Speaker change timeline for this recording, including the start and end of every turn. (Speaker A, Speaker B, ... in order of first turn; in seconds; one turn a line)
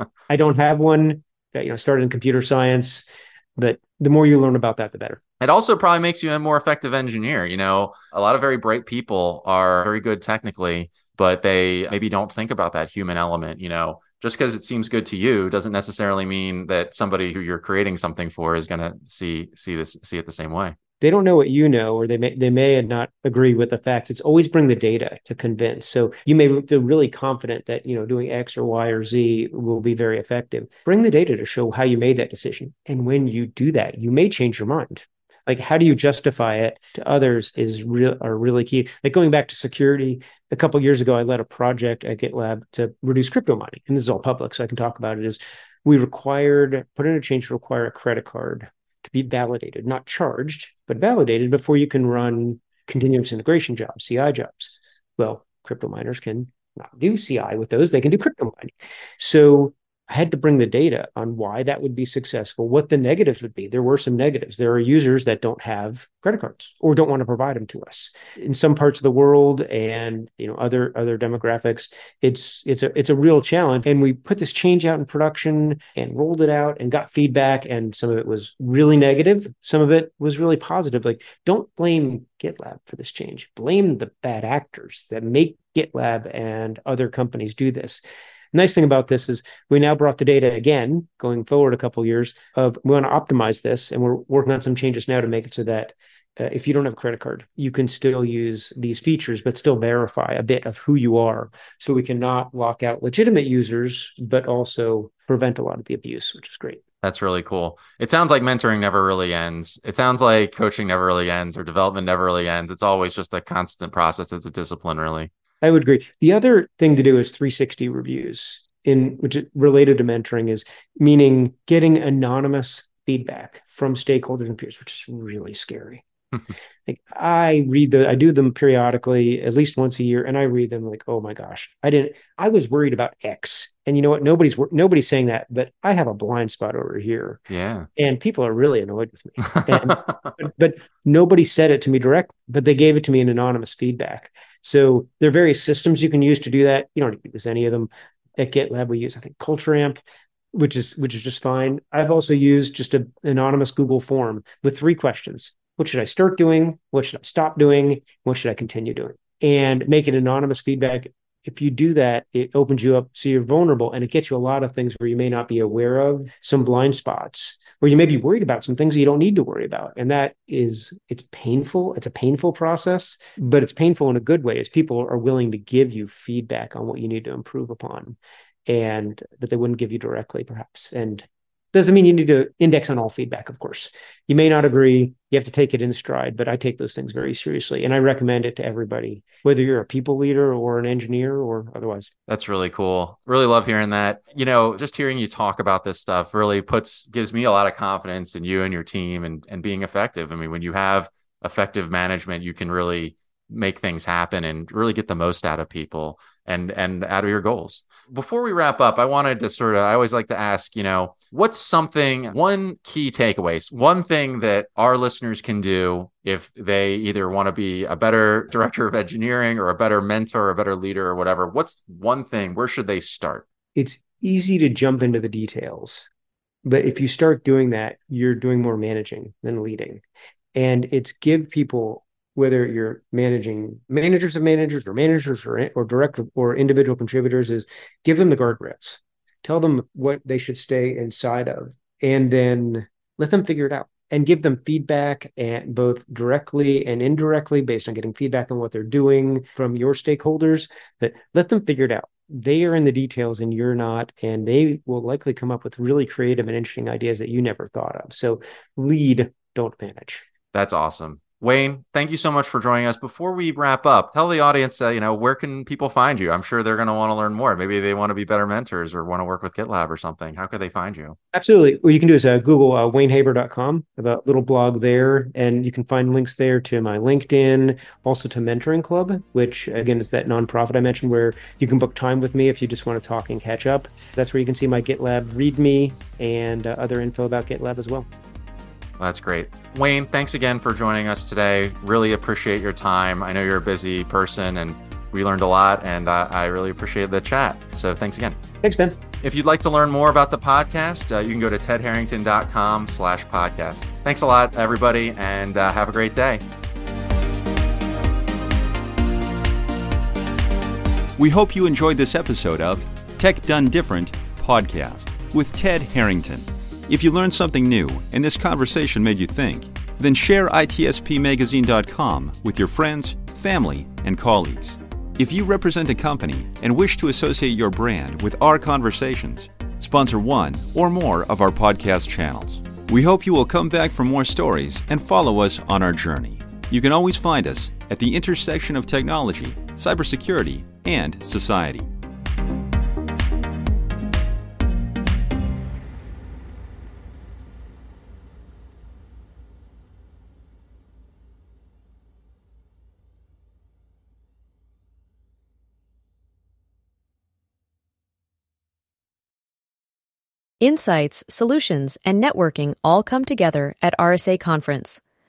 Speaker A: 0.3-5.2
Speaker B: 5.4-20.7
Speaker A: 21.0-88.0
Speaker A: 88.5-106.8
Speaker B: 107.0-115.3
Speaker A: 115.6-126.0
Speaker A: 126.8-137.4
Speaker B: 137.5-137.9
Speaker A: 137.9-150.0
Speaker B: 139.4-140.1
Speaker A: 150.5-192.1
Speaker B: 192.3-223.4
Speaker A: 223.7-226.1
Speaker A: 226.6-230.0
Speaker A: 230.5-260.3
Speaker B: 260.5-271.2
Speaker A: 271.3-288.1
Speaker B: 289.0-298.4
Speaker A: 298.6-299.0
Speaker B: 299.2-306.4
Speaker C: 311.2-341.9
Speaker D: 360.6-365.0